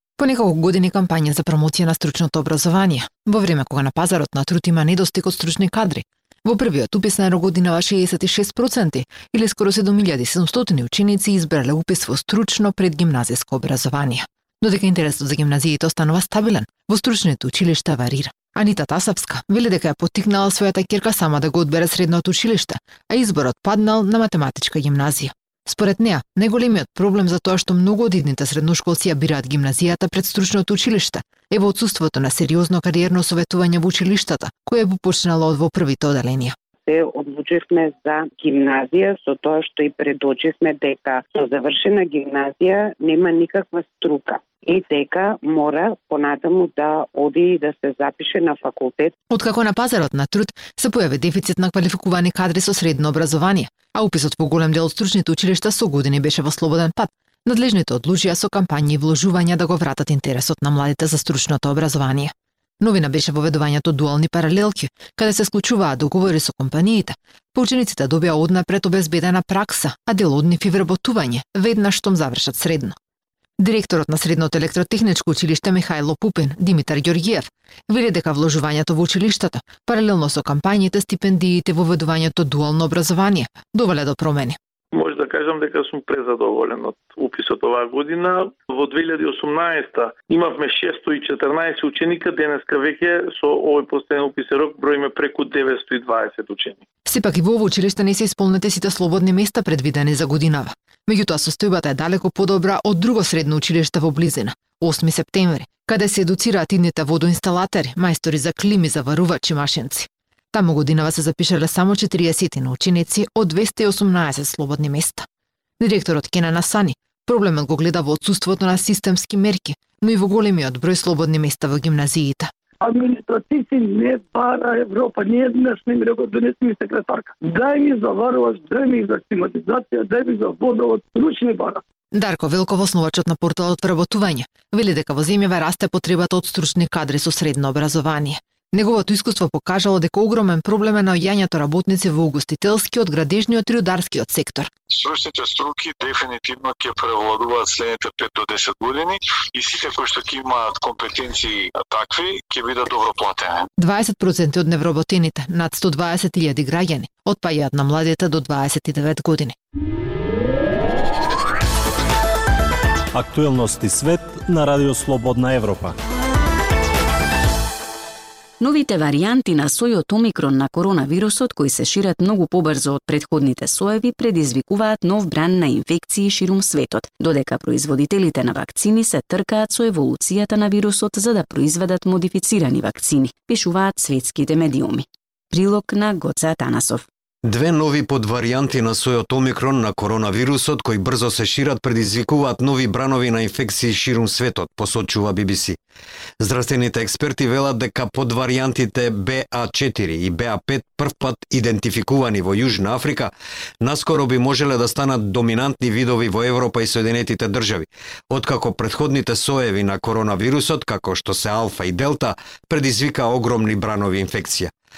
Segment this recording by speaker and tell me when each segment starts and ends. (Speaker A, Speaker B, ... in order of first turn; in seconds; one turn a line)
Speaker A: 0.2-36.5
Speaker B: 36.9-49.1
Speaker A: 49.3-72.9
Speaker A: 73.6-84.6
Speaker C: 84.9-96.8
Speaker A: 97.0-115.2
Speaker A: 115.8-122.5
Speaker D: 122.9-131.8
Speaker A: 132.1-144.7
Speaker E: 144.9-153.7
Speaker A: 153.8-159.5
Speaker F: 163.1-165.9
Speaker G: 168.6-187.0
Speaker H: 187.4-195.8
Speaker H: 196.4-214.7